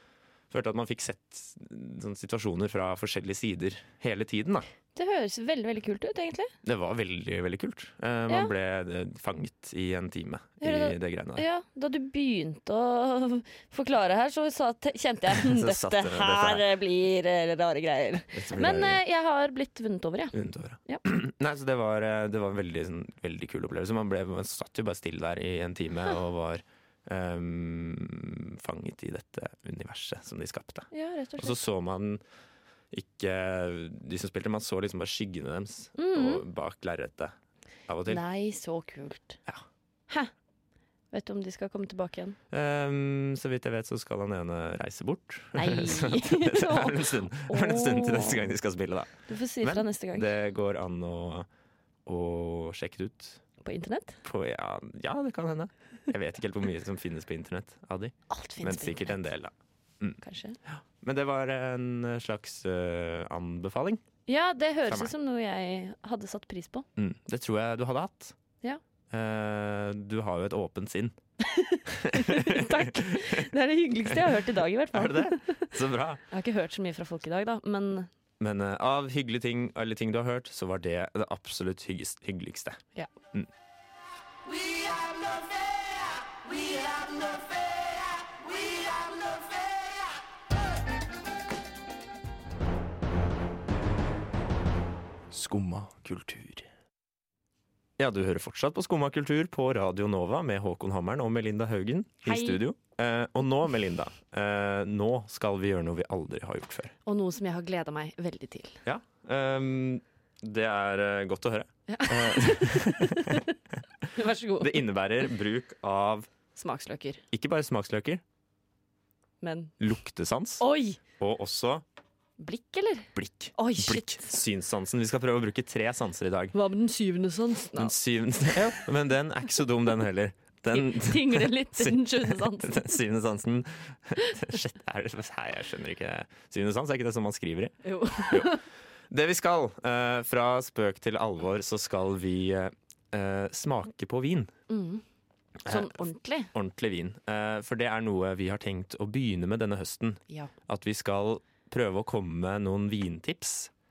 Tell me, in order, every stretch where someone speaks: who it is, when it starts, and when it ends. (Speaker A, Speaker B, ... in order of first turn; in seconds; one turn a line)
Speaker A: 0.5-4.7
Speaker B: 4.9-6.5
Speaker A: 6.6-11.4
Speaker B: 10.6-21.0
Speaker A: 15.3-16.6
Speaker A: 18.3-19.0
Speaker A: 20.3-32.2
Speaker B: 30.9-31.6
Speaker A: 32.9-37.3
Speaker B: 36.0-36.4
Speaker A: 37.9-38.2
Speaker B: 38.1-39.4
Speaker B: 41.1-42.4
Speaker A: 42.5-51.5
Speaker B: 45.5-48.5
Speaker B: 49.3-50.3
Speaker A: 52.0-53.4
Speaker B: 53.6-54.2
Speaker A: 54.2-64.0
Speaker B: 58.3-59.2
Speaker B: 60.2-60.6
Speaker B: 64.3-66.9
Speaker A: 64.9-65.1
Speaker A: 67.0-68.4
Speaker A: 69.1-71.2
Speaker B: 71.4-75.7
Speaker A: 71.9-73.5
Speaker A: 74.9-76.2
Speaker B: 76.3-78.1
Speaker A: 78.4-82.8
Speaker A: 95.3-96.6
Speaker A: 98.0-106.9
Speaker B: 102.2-102.6
Speaker B: 107.0-108.8
Speaker A: 108.8-113.4
Speaker B: 111.9-113.5
Speaker B: 114.1-114.8
Speaker A: 114.6-116.3
Speaker B: 116.6-117.2
Speaker A: 117.3-118.2
Speaker B: 119.4-119.7
Speaker A: 119.8-120.6
Speaker B: 120.6-121.0
Speaker A: 121.2-121.8
Speaker B: 122.4-124.2
Speaker A: 123.1-126.5
Speaker B: 126.5-127.9
Speaker A: 127.8-137.8
Speaker B: 130.7-132.9
Speaker B: 137.8-138.6
Speaker A: 139.1-144.5
Speaker B: 144.7-145.0
Speaker B: 145.6-146.5
Speaker A: 145.7-146.0
Speaker A: 146.5-153.7